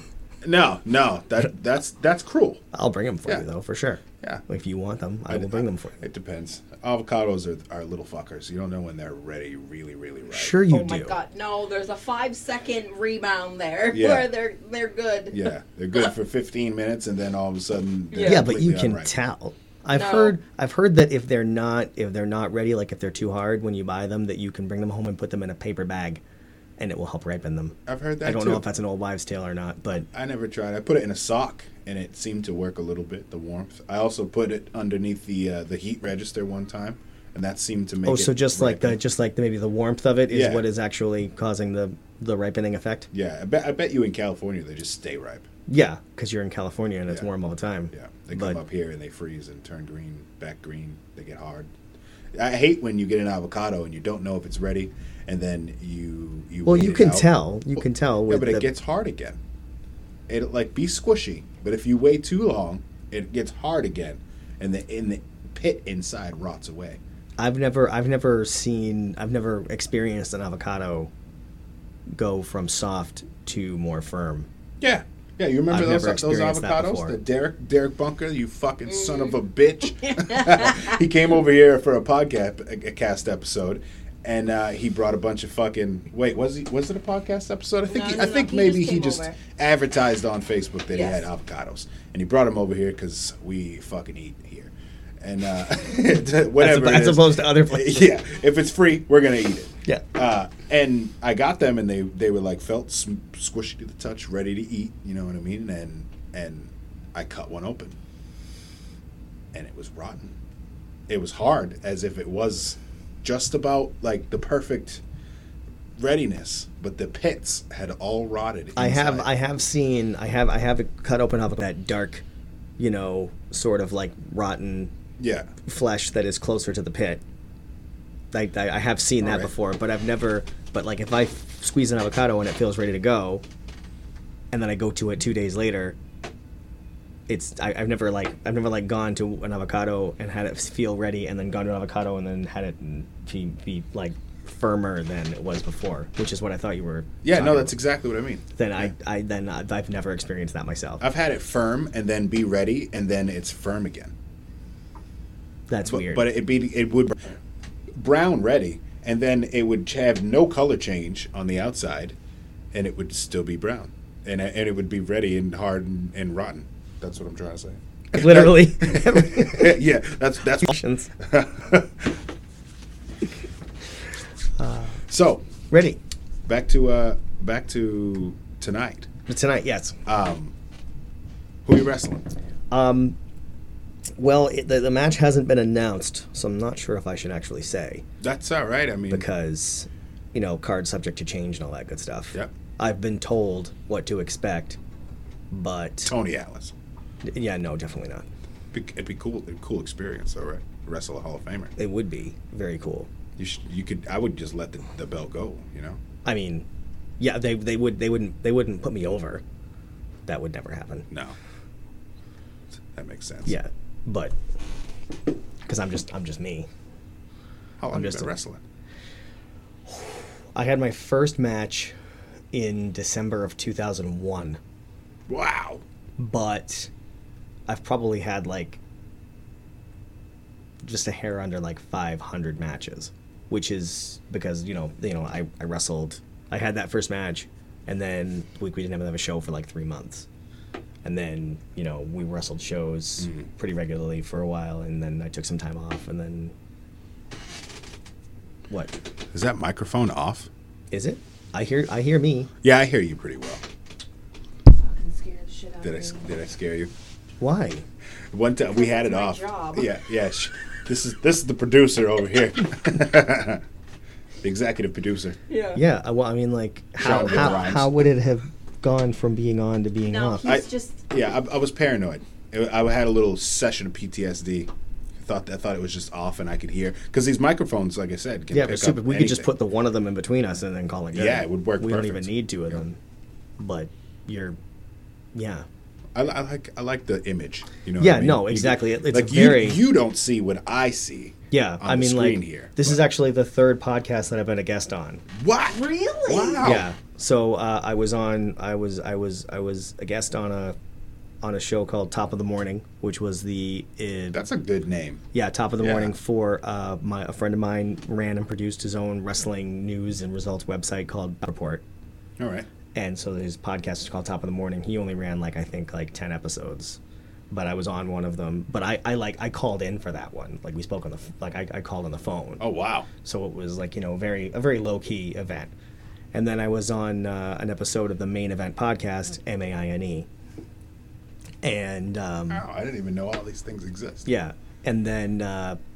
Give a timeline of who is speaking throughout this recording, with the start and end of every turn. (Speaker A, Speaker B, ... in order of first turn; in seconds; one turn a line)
Speaker A: 0.4-2.6
Speaker B: 2.7-6.0
Speaker A: 5.3-10.6
Speaker B: 10.3-11.2
Speaker C: 10.7-15.5
Speaker A: 13.9-14.3
Speaker A: 15.3-19.1
Speaker C: 18.1-18.4
Speaker B: 18.2-26.2
Speaker C: 19.9-20.4
Speaker B: 26.8-30.1
Speaker A: 27.9-28.6
Speaker A: 30.1-39.0
Speaker B: 38.0-43.1
Speaker A: 40.3-40.6
Speaker A: 43.1-45.5
Speaker B: 45.7-48.6
Speaker A: 47.9-51.7
Speaker A: 52.3-59.4
Speaker B: 56.6-58.7
Speaker A: 60.3-67.0
Speaker B: 67.4-71.1
Speaker B: 72.1-74.5
Speaker A: 74.8-108.0
Speaker B: 75.7-77.2
Speaker C: 78.9-79.4
Speaker C: 80.0-80.9
Speaker C: 87.9-89.3
Speaker C: 90.9-91.2
Speaker B: 96.5-98.2
Speaker A: 109.5-110.3
Speaker A: 111.1-115.0
Speaker A: 116.0-119.3
Speaker B: 118.8-122.2
Speaker B: 122.8-124.9
Speaker A: 125.2-125.5
Speaker B: 125.7-127.2
Speaker B: 128.3-133.4
Speaker A: 129.2-129.5
Speaker B: 134.5-136.0
Speaker B: 137.3-147.8
Speaker A: 147.2-148.9
Speaker B: 148.5-151.0
Speaker A: 151.0-154.1
Speaker B: 155.7-156.3
Speaker A: 155.8-157.3
Speaker A: 157.9-162.1
Speaker A: 162.7-172.2
Speaker B: 168.1-169.8
Speaker B: 170.6-171.1
Speaker B: 174.6-175.0
Speaker A: 175.1-175.4
Speaker B: 175.7-176.0
Speaker A: 176.4-179.1
Speaker B: 179.3-179.9
Speaker A: 180.1-180.5
Speaker A: 181.6-182.3
Speaker B: 182.7-183.2
Speaker B: 184.2-188.0
Speaker A: 188.2-189.2
Speaker B: 189.1-194.8
Speaker B: 195.5-196.1
Speaker A: 196.0-196.7
Speaker B: 197.2-198.2
Speaker A: 198.7-201.7
Speaker B: 201.8-203.1
Speaker A: 203.4-206.0
Speaker B: 206.2-206.6
Speaker B: 207.2-209.4
Speaker B: 210.3-211.1
Speaker A: 211.1-211.3
Speaker A: 212.9-213.6
Speaker B: 213.4-214.3
Speaker B: 215.7-216.7
Speaker A: 217.8-218.6
Speaker B: 217.9-218.3
Speaker B: 219.9-221.9
Speaker B: 222.5-224.6
Speaker A: 225.3-225.8
Speaker B: 226.2-226.9
Speaker B: 227.7-228.8
Speaker B: 230.8-240.2
Speaker B: 241.0-246.5
Speaker B: 248.7-248.9
Speaker A: 249.3-250.5
Speaker B: 250.9-252.5
Speaker A: 252.6-253.6
Speaker C: 254.8-256.4
Speaker A: 255.8-256.9
Speaker B: 257.4-257.8
Speaker A: 258.3-263.6
Speaker C: 258.7-259.9
Speaker A: 264.4-265.4
Speaker C: 265.5-265.8
Speaker B: 265.7-270.5
Speaker A: 267.0-267.9
Speaker C: 270.1-271.0
Speaker A: 270.4-279.5
Speaker B: 278.5-283.0
Speaker A: 281.1-282.8
Speaker B: 283.6-284.6
Speaker B: 285.3-285.6
Speaker A: 286.1-293.0
Speaker B: 288.0-289.8
Speaker B: 291.5-295.2
Speaker A: 295.3-296.9
Speaker C: 295.6-296.8
Speaker B: 296.6-300.8
Speaker B: 301.4-304.4
Speaker A: 304.3-305.2
Speaker B: 305.3-311.8
Speaker A: 305.8-306.1
Speaker A: 312.4-312.7
Speaker B: 312.9-317.0
Speaker B: 317.5-322.6
Speaker A: 322.6-323.1
Speaker B: 323.2-325.7
Speaker B: 326.3-330.3
Speaker B: 331.6-332.6
Speaker A: 332.5-334.3
Speaker B: 334.2-335.8